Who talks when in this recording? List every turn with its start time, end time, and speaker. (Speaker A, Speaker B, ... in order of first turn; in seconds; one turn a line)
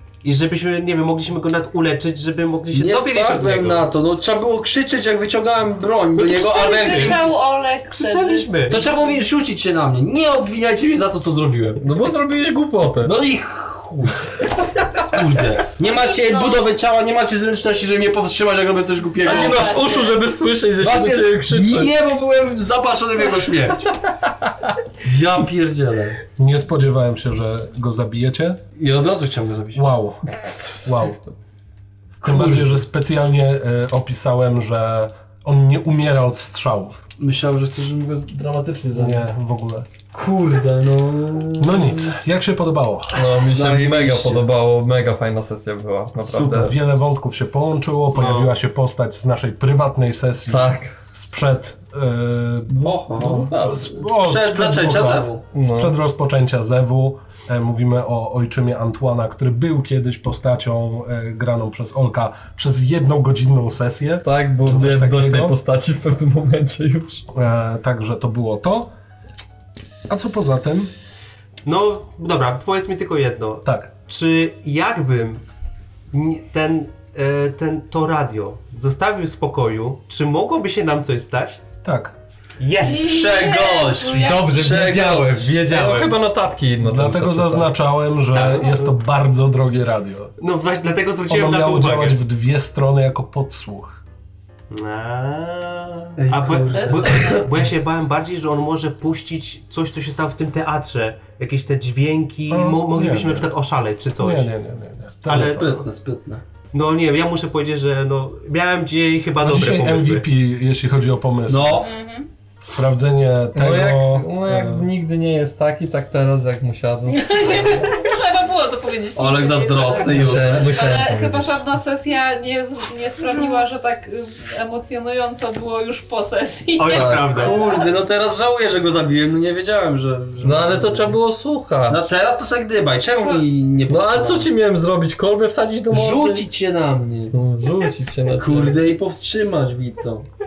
Speaker A: 0.2-3.9
Speaker B: 2.7-7.3
Speaker C: 6.2-8.5
Speaker A: 6.9-7.2
Speaker A: 7.9-8.9
Speaker B: 8.7-11.8
Speaker D: 11.8-13.2
Speaker B: 13.0-14.3
Speaker B: 15.0-20.2
Speaker C: 15.8-16.7
Speaker C: 19.1-20.2
Speaker D: 19.2-21.9
Speaker B: 20.8-23.9
Speaker D: 24.1-24.5
Speaker B: 25.0-26.2
Speaker E: 26.4-28.6
Speaker B: 28.8-29.8
Speaker E: 29.7-31.2
Speaker D: 30.4-31.2
Speaker B: 32.2-32.8
Speaker E: 32.2-37.0
Speaker B: 37.2-39.3
Speaker E: 38.9-39.9
Speaker B: 40.1-42.1
Speaker E: 41.6-43.2
Speaker D: 43.1-46.8
Speaker B: 43.4-44.5
Speaker B: 46.2-46.7
Speaker E: 46.5-52.8
Speaker A: 48.1-48.5
Speaker D: 50.5-51.0
Speaker B: 52.7-55.5
Speaker D: 53.0-53.6
Speaker E: 53.5-65.6
Speaker D: 55.5-56.0
Speaker D: 64.2-67.2
Speaker E: 67.3-68.9
Speaker E: 70.1-70.9
Speaker A: 71.6-75.4
Speaker E: 73.6-73.9
Speaker A: 76.1-81.6
Speaker E: 81.8-82.1
Speaker A: 82.6-83.4
Speaker C: 82.8-84.5
Speaker B: 82.8-85.7
Speaker D: 84.2-87.7
Speaker A: 84.3-86.2
Speaker E: 86.8-90.3
Speaker A: 88.3-89.0
Speaker A: 90.4-92.2
Speaker E: 91.3-94.0
Speaker A: 94.7-104.5
Speaker B: 96.2-97.5
Speaker C: 96.7-97.5
Speaker E: 102.5-103.5
Speaker E: 104.2-105.6
Speaker A: 105.2-105.9
Speaker B: 105.3-106.4
Speaker A: 106.7-110.2
Speaker E: 109.4-111.9
Speaker B: 111.5-111.9
Speaker C: 111.8-112.3
Speaker E: 112.6-114.9
Speaker D: 113.5-117.8
Speaker C: 117.1-127.9
Speaker B: 119.1-120.8
Speaker D: 120.0-121.6
Speaker A: 126.8-127.6
Speaker B: 126.9-131.2
Speaker D: 130.4-132.1
Speaker B: 131.9-134.5
Speaker C: 133.2-133.4
Speaker D: 133.9-136.5
Speaker B: 135.9-137.4
Speaker D: 137.3-138.8
Speaker B: 138.3-140.3